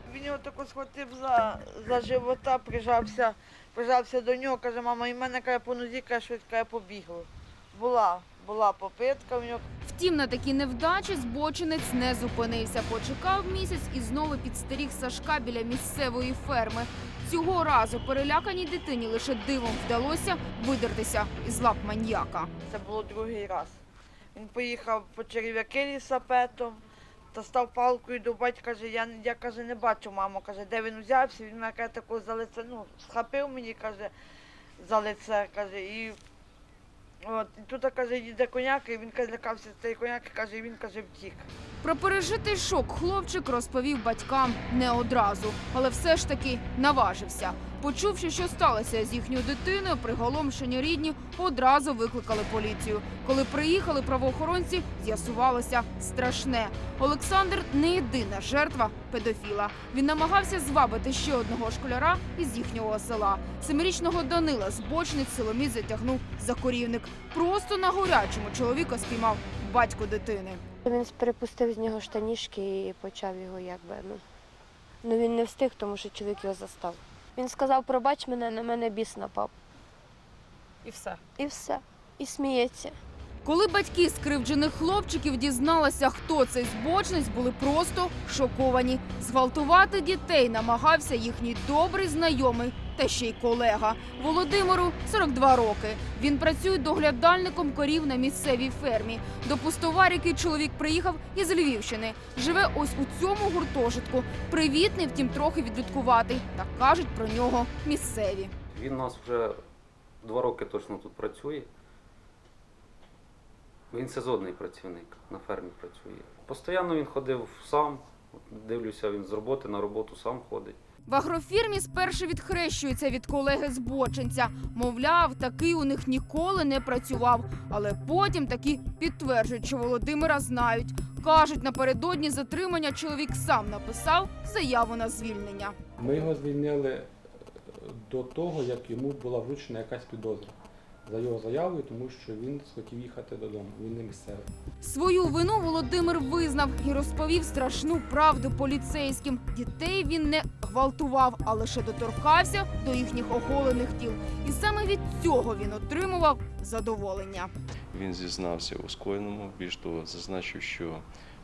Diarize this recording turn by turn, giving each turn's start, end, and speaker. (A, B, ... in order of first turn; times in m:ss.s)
0:00.1-0:09.6 A
0:09.8-0:22.5 B
0:22.7-0:23.8 A
0:24.3-0:26.8 A
0:27.3-0:34.1 A
0:34.8-0:36.2 A
0:37.2-0:41.5 A
0:41.8-1:10.6 B
1:10.8-1:14.2 C
1:15.0-1:19.5 C
1:21.3-1:23.0 C
1:23.4-1:48.5 B
1:48.7-1:49.6 D
1:50.2-1:51.7 D
1:53.9-2:00.8 D
2:01.1-2:15.7 B
2:16.0-2:17.1 E
2:17.7-2:24.5 E
2:24.8-2:37.5 B
2:37.9-2:41.0 F